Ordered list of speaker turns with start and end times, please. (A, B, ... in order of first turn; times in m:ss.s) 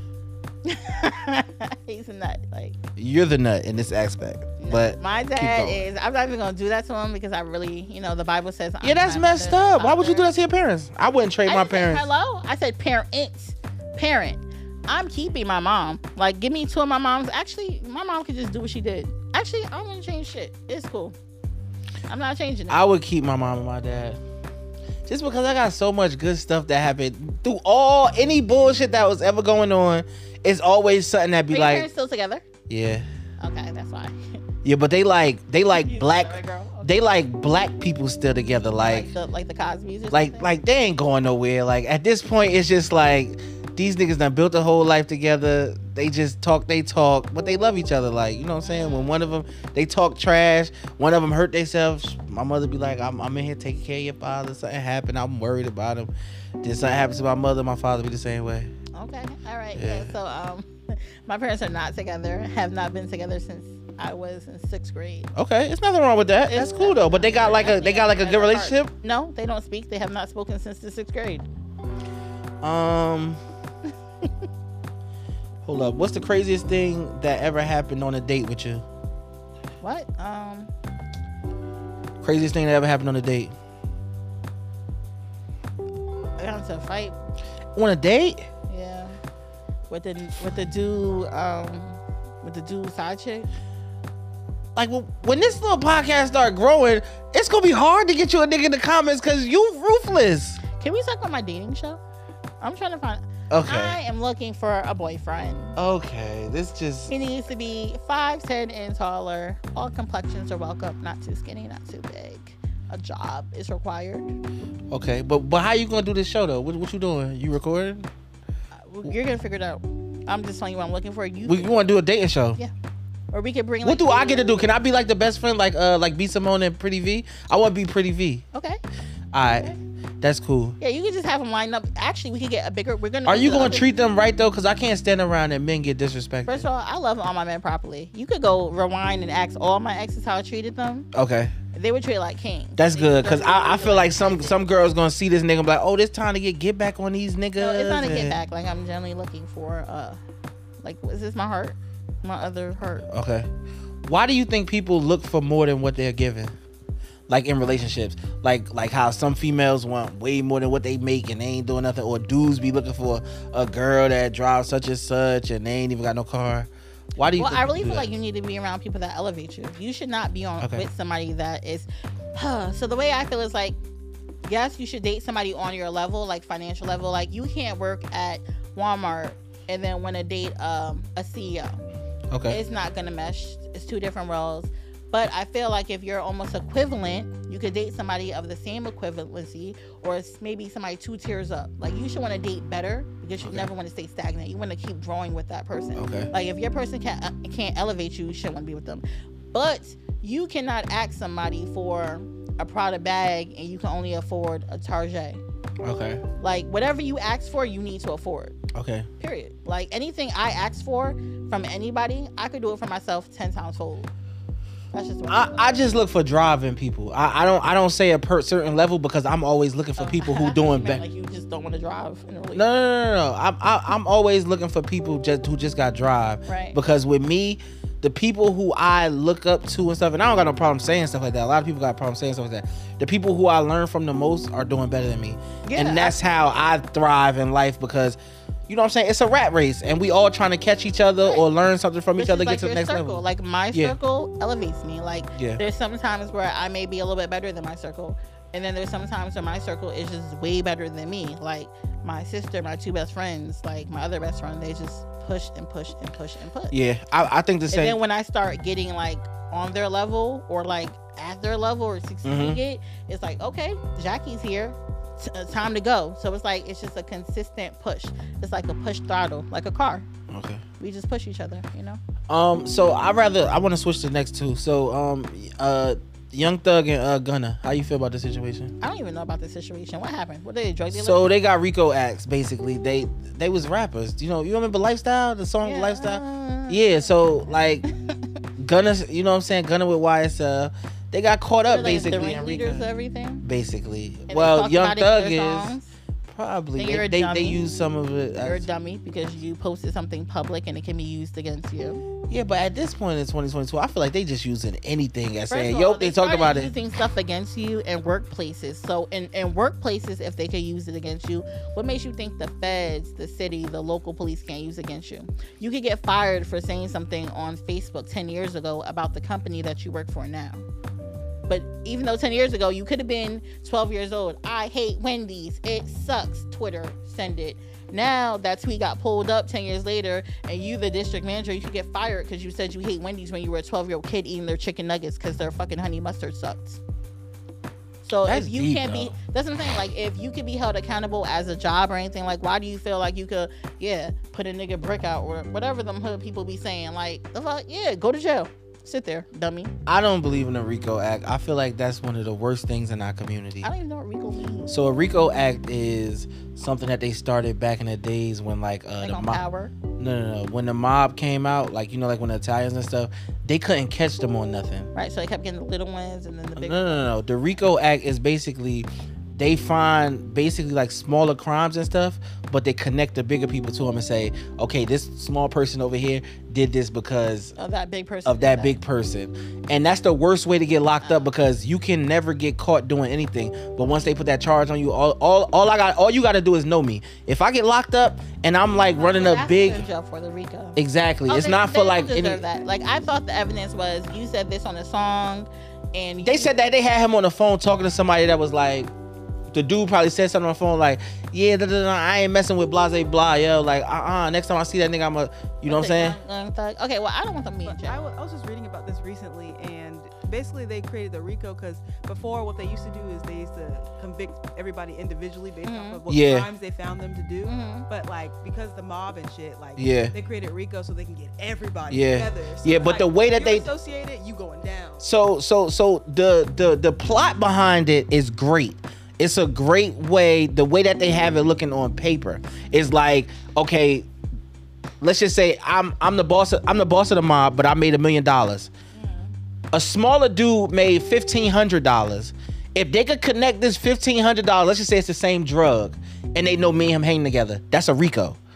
0:00.6-0:02.8 A
0:03.0-0:05.9 B
0:04.6-0:10.3 A
0:08.8-0:12.0 B
0:11.5-0:21.2 A
0:22.1-0:22.8 A
0:22.7-0:24.2 B
0:25.1-0:31.9 B
0:31.5-0:32.4 A
0:32.7-0:33.1 B
0:33.4-0:34.2 A
0:34.6-0:39.1 B
0:35.7-0:36.9 A
0:38.7-0:40.6 A
0:40.1-0:58.7 B
0:48.6-0:49.2 A
0:58.9-1:05.3 A
0:59.8-1:00.1 B
1:05.4-1:08.9 B
1:06.5-1:11.4 A
1:12.6-1:13.4 B
1:15.6-1:18.8 B
1:19.8-1:20.7 A
1:22.2-1:23.5 B
1:26.4-1:27.2 A
1:27.8-1:28.5 B
1:28.7-1:29.2 A
1:29.9-1:33.5 A
1:34.8-1:40.6 B
1:40.7-1:42.0 A
1:42.6-1:45.8 A
1:43.5-1:44.0 B
1:45.8-1:47.1 B
1:47.1-1:54.3 A
1:54.9-1:58.1 B
1:58.8-2:01.8 A
2:01.5-2:02.6 B
2:03.3-2:04.7 A
2:03.8-2:08.4 B
2:08.5-2:08.8 A
2:09.3-2:10.8 B
2:10.8-2:13.9 A
2:13.3-2:16.7 B
2:16.5-2:21.1 A
2:21.1-2:21.5 B
2:21.7-2:24.6 A
2:22.8-2:28.4 B
2:27.6-2:30.2 A
2:30.8-2:33.1 A
2:33.1-2:33.5 B
2:34.1-2:36.5 B
2:37.3-2:48.2 B
2:47.3-2:53.8 A
2:54.5-3:01.8 A
3:02.3-3:02.6 B
3:02.5-3:25.4 A
3:13.4-3:13.7 B
3:16.0-3:16.3 B
3:25.8-3:26.2 B
3:26.4-3:28.6 A
3:28.7-3:29.1 B
3:29.2-3:34.1 A
3:34.9-3:36.0 A
3:35.3-3:41.0 B
3:40.0-3:42.6 A
3:42.5-4:04.0 B
3:46.5-3:46.8 A
3:55.6-3:56.2 A
4:02.2-4:16.8 A
4:05.4-4:05.6 B
4:16.7-4:18.0 B
4:17.7-4:30.1 A
4:22.2-4:22.6 B
4:30.3-4:30.6 B
4:30.8-4:32.0 A
4:32.3-4:38.7 B
4:38.8-4:41.3 A
4:40.9-4:47.8 B
4:45.6-4:47.2 A
4:47.8-4:48.2 A
4:48.6-4:52.8 B
4:51.7-4:53.4 A
4:53.4-4:55.8 B
4:54.3-4:55.9 A
4:56.3-4:58.7 B
4:56.8-4:57.6 A
4:58.4-5:02.0 A
5:02.3-5:06.7 B
5:05.5-5:20.6 A
5:21.5-5:36.8 A
5:38.0-5:49.7 A
5:38.3-5:39.1 B
5:49.9-5:53.7 B
5:53.6-5:54.7 A
5:54.7-5:59.4 B
5:59.0-5:59.7 A
6:00.0-6:04.9 B
6:05.0-6:07.1 A
6:06.6-6:17.6 B
6:17.6-6:18.8 A
6:18.3-6:29.9 B
6:21.0-6:21.3 A
6:28.7-6:36.5 A
6:30.8-6:32.4 B
6:36.2-6:38.9 B
6:39.5-6:46.2 B
6:45.7-6:48.0 A
6:47.6-7:05.0 C
6:55.6-6:56.0 A
6:56.1-6:56.5 B
6:57.4-6:57.9 A
6:59.8-7:00.1 B
7:01.9-7:03.7 B
7:05.0-7:14.1 B
7:15.0-7:18.7 B
7:18.9-7:19.3 A
7:19.7-7:28.4 B